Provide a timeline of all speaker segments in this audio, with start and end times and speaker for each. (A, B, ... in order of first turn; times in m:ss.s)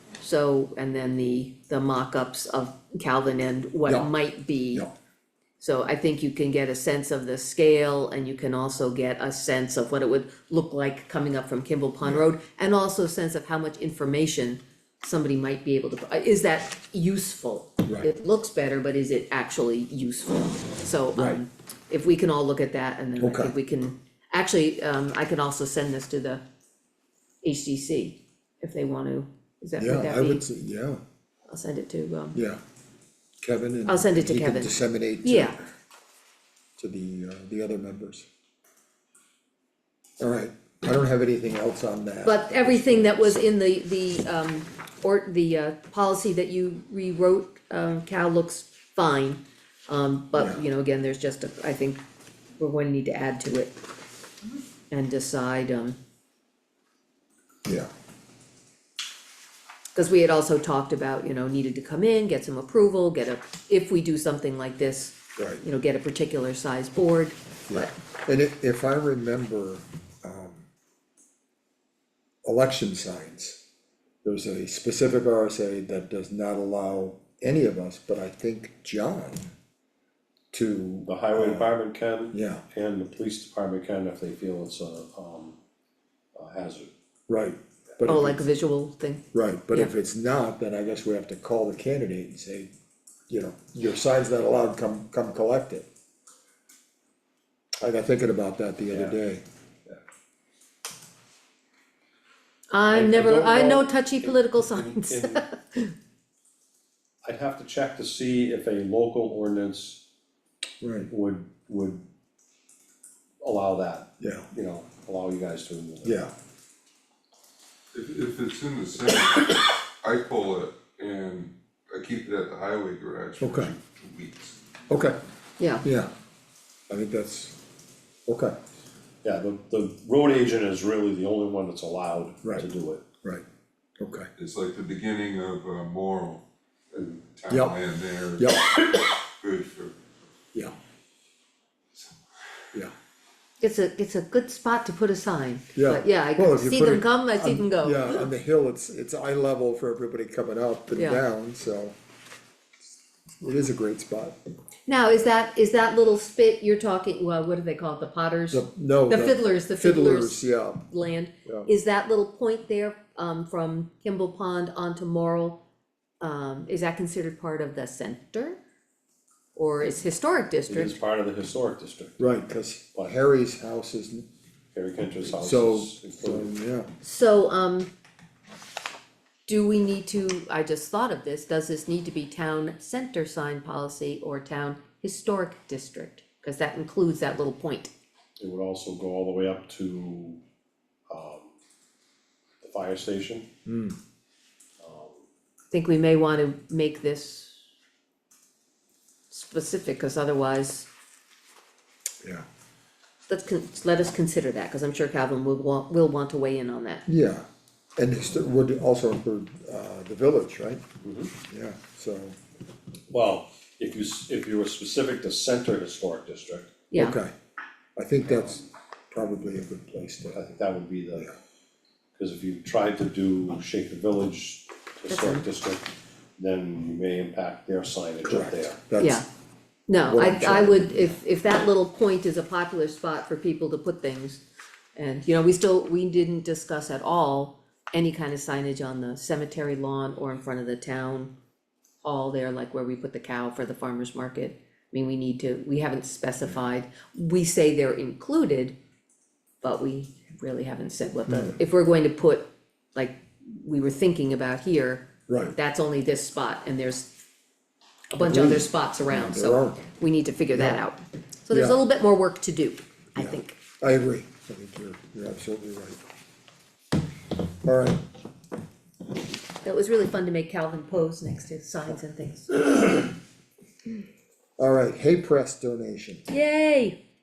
0:00.2-0:04.9 A
0:03.9-0:04.1 B
0:05.6-0:26.4 A
0:21.2-0:21.4 B
0:23.2-0:23.6 B
0:27.4-0:30.4 A
0:29.8-0:31.0 B
0:31.5-0:32.4 A
0:32.3-0:32.6 B
0:33.4-0:35.7 B
0:33.8-0:35.6 A
0:36.8-0:38.3 B
0:40.2-0:43.4 B
0:42.2-0:52.0 A
0:50.3-0:50.6 B
0:52.6-0:53.8 A
0:54.9-0:56.0 A
0:59.9-1:07.9 A
1:05.4-1:05.6 B
1:07.7-1:10.7 B
1:12.4-1:13.6 B
1:14.2-1:19.5 B
1:20.5-1:21.7 B
1:21.0-1:25.6 C
1:22.3-1:22.6 B
1:26.3-1:26.9 C
1:27.3-1:28.4 B
1:28.0-1:29.9 A
1:29.3-1:32.7 B
1:33.3-1:35.9 B
1:37.8-1:39.4 B
1:38.9-1:39.2 C
1:42.7-1:45.9 A
1:42.9-1:45.4 C
1:47.2-1:50.0 C
1:50.8-1:51.1 B
1:51.1-1:52.0 C
1:53.4-1:56.2 C
1:54.2-1:54.5 B
1:56.0-1:56.3 B
1:57.9-2:04.6 D
2:03.4-2:03.7 B
2:04.9-2:05.2 B
2:05.6-2:05.8 A
2:05.8-2:06.1 B
2:06.9-2:07.6 B
2:08.3-2:08.6 B
2:09.2-2:13.0 C
2:14.0-2:14.3 B
2:14.4-2:20.0 D
2:17.5-2:17.8 B
2:18.4-2:18.8 B
2:23.6-2:28.2 A
2:25.8-2:32.0 B
2:30.9-2:31.2 A
2:33.4-2:34.4 B
2:34.9-2:45.6 A
2:38.5-2:40.8 B
2:46.2-2:48.6 A
2:49.5-2:51.0 A
2:50.7-2:52.2 C
2:52.2-2:54.2 B
2:54.7-2:56.5 C
2:55.2-2:56.9 B
2:57.0-2:57.9 A
2:59.5-3:07.9 A
3:08.4-3:10.4 C
3:11.1-3:11.5 C
3:12.6-3:13.5 C
3:13.7-3:14.0 B
3:14.8-3:15.2 C
3:15.7-3:17.6 A
3:19.3-3:20.9 A
3:23.3-3:27.1 A
3:27.1-3:27.5 B
3:28.0-3:30.8 B
3:31.0-3:31.3 C
3:31.4-3:32.4 B
3:33.1-3:36.8 C
3:36.9-3:37.2 A
3:36.9-3:37.3 B
3:38.0-3:40.4 B
3:40.3-3:41.3 C
3:42.2-3:48.8 C
3:45.1-3:45.5 A
3:48.2-3:49.2 B
3:49.0-3:49.2 A
3:49.9-3:54.4 A
3:50.0-3:51.1 B
3:54.9-4:01.3 A
4:02.0-4:08.8 A
4:09.6-4:17.1 A
4:11.3-4:11.6 B
4:15.3-4:15.6 B
4:18.1-4:23.6 A
4:18.2-4:19.9 B
4:20.5-4:20.8 B
4:21.5-4:21.8 B
4:23.2-4:26.0 B
4:27.6-4:28.0 B
4:29.6-4:33.0 A
4:34.6-4:36.3 B
4:36.3-4:37.0 A